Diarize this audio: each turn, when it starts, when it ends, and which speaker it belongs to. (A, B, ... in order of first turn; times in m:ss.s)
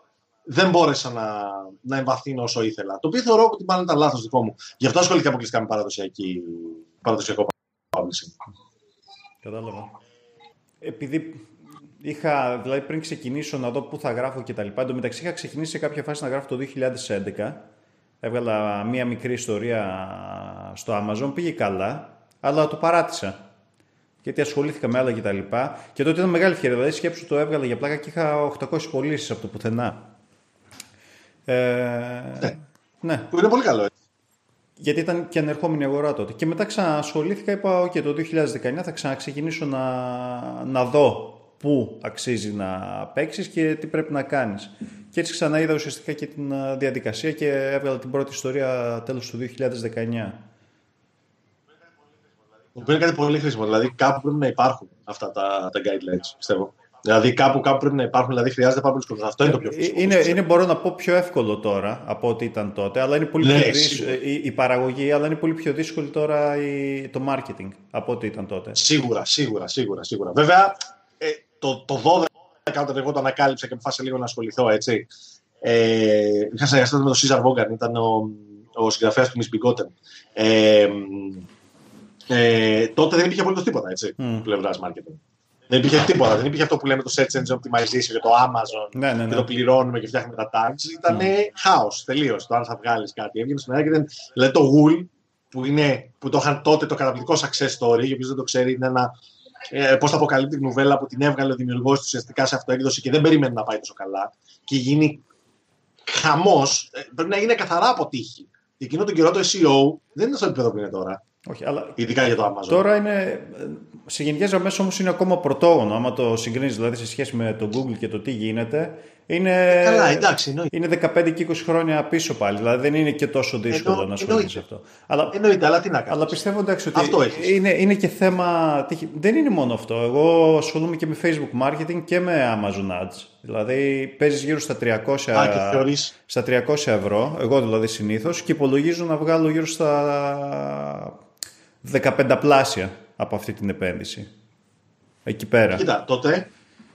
0:00.4-0:08.4 A
0:09.4-0:09.9 B
0:10.8-0:17.6 B
0:18.2-0:23.4 B
0:24.2-0:30.1 B
0:31.5-0:33.3 B
0:33.3-0:33.9 A
0:34.8-0:50.4 B
0:52.7-1:00.4 A
0:59.4-1:08.8 B
1:03.4-1:04.2 A
1:08.7-1:15.1 A
1:15.6-1:21.4 A
1:22.3-1:39.1 A
1:24.2-1:24.5 B
1:28.9-1:29.5 B
1:39.7-1:45.2 A
1:46.0-1:51.2 A
1:51.4-1:52.0 B
1:52.0-1:52.8 A
1:52.7-2:05.4 B
1:59.7-2:00.7 A
2:03.7-2:04.6 A
2:05.3-2:06.4 A
2:06.1-2:21.2 B
2:06.9-2:07.5 A
2:15.3-2:16.1 A
2:21.8-2:24.3 B
2:25.2-2:25.9 B
2:25.7-2:26.5 A